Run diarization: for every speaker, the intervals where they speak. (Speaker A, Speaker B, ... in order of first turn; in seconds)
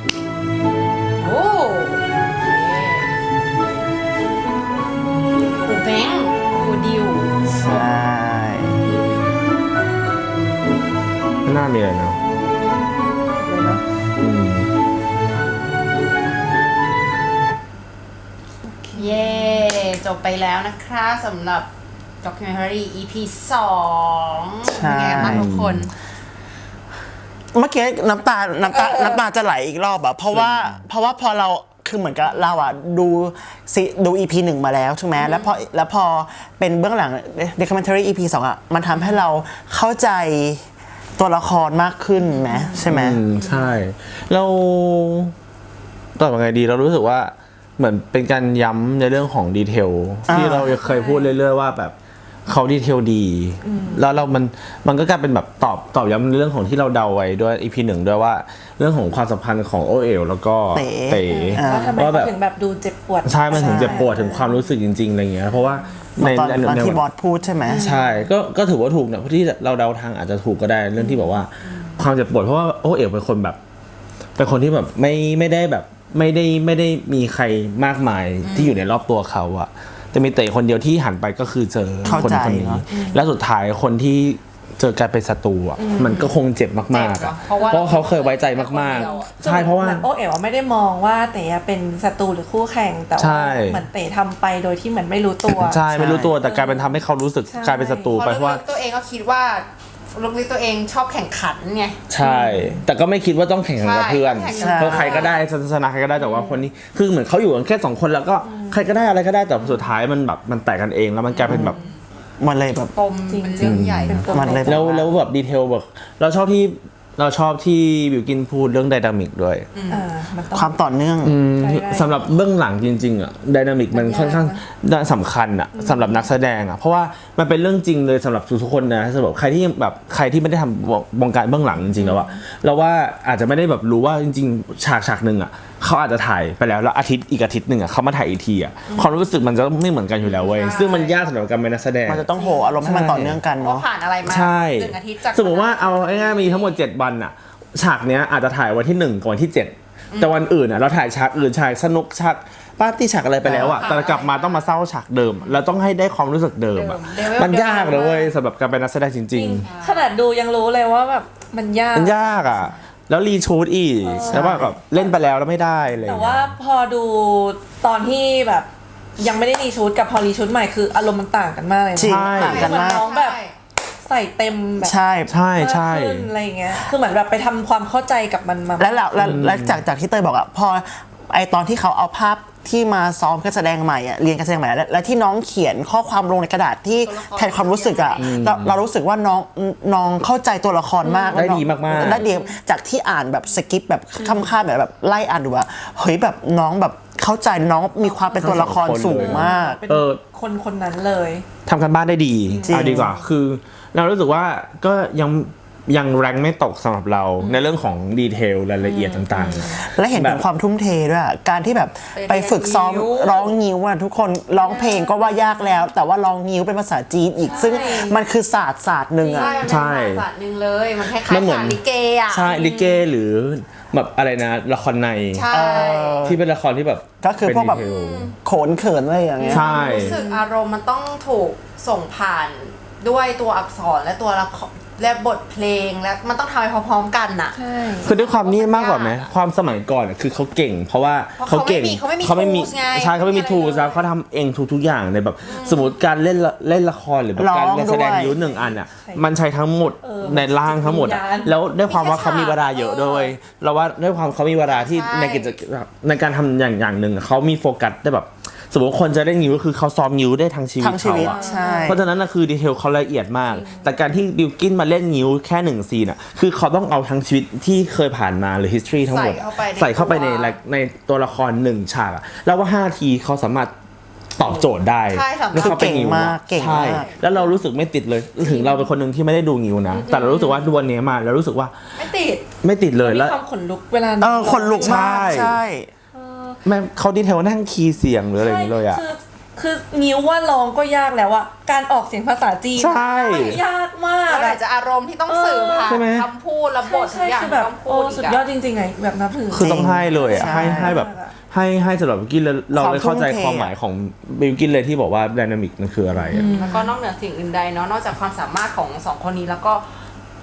Speaker A: 1.2-3.2, 5.6-7.4, 18.9-21.7, 22.2-25.9, 43.4-43.7, 71.7-72.0, 78.4-78.8, 85.9-86.4, 86.9-89.3, 98.1-102.0, 103.8-105.4, 111.3-112.0, 112.9-115.0, 119.7-120.1, 140.2-141.2, 142.3-142.9, 143.6-146.8, 150.1-150.5, 153.5-154.8, 155.4-155.8, 156.7-158.3, 159.6-160.1, 164.2-165.1, 172.3-173.6, 187.0-188.4, 212.2-213.5, 217.5-218.0, 219.3-222.6, 225.3-226.3, 227.7-228.3, 229.4-239.3, 241.4-244.1, 245.4-246.0, 251.8-253.3, 254.6-255.6, 269.0-270.6, 274.4-277.4, 282.0-282.5, 294.3-298.4, 306.3-309.8
Speaker B: 7.5-8.8, 24.7-25.5, 27.5-40.6, 41.2-43.2, 50.3-50.8, 60.7-61.9, 63.5-64.1, 66.2-67.9, 82.0-82.8, 95.9-96.3, 104.6-105.3, 111.5-111.7, 112.4-112.9, 114.3-115.1, 120.5-121.4, 142.1-143.9, 153.4-154.0, 164.3-164.7, 172.0-173.1, 174.8-175.3, 178.8-199.8, 202.7-203.1, 209.8-219.8, 225.5-226.4, 227.2-227.9, 228.4-229.7, 247.4-248.4, 260.8-262.1, 275.6-277.1, 284.2-285.9, 299.6-301.0, 302.7-303.7
Speaker C: 11.4-12.2, 14.2-14.7, 25.1-25.9, 30.3-30.8, 42.9-45.3, 46.2-51.9, 52.5-62.3, 63.2-67.0, 67.8-73.6, 74.4-90.1, 93.2-93.8, 95.5-98.6, 102.1-111.8, 113.6-119.7, 121.2-142.3, 142.8-143.4, 144.2-159.7, 161.9-166.6, 172.0-172.7, 175.3-176.3, 179.2-179.8, 188.2-188.8, 191.3-192.2, 198.4-200.2, 201.7-210.4, 219.6-220.3, 221.2-225.5, 226.2-228.3, 229.5-230.2, 238.0-273.7, 274.4-281.7, 282.6-283.4, 284.4-285.6, 286.6-289.0, 292.8-293.6, 295.9-296.3, 299.5-306.5
Speaker D: 13.5-13.8, 18.8-19.4, 50.7-51.3, 53.6-54.1, 61.3-64.7, 67.7-68.3, 82.9-83.2, 85.8-86.3, 87.6-88.0, 88.9-97.0, 97.5-98.1, 102.2-102.8, 104.5-105.3, 106.2-106.7, 108.4-108.9, 109.6-109.9, 111.5-111.9, 113.3-114.9, 119.9-120.7, 121.6-122.2, 123.9-124.6, 125.8-126.3, 131.8-132.4, 159.3-162.7, 164.0-165.0, 166.0-173.4, 174.0-175.0, 175.6-179.4, 191.0-191.4, 192.1-192.5, 198.1-198.6, 199.2-201.5, 202.5-203.1, 207.4-207.6, 208.8-209.7, 214.6-215.9, 217.4-218.2, 219.2-219.8, 222.5-223.0, 229.4-230.5, 237.5-238.1, 248.1-249.3, 250.0-251.5, 261.2-262.0, 263.5-263.9, 278.4-278.9, 279.9-280.7, 283.0-285.4, 286.1-286.6, 288.4-294.6, 295.3-296.0, 296.8-301.3, 306.2-306.9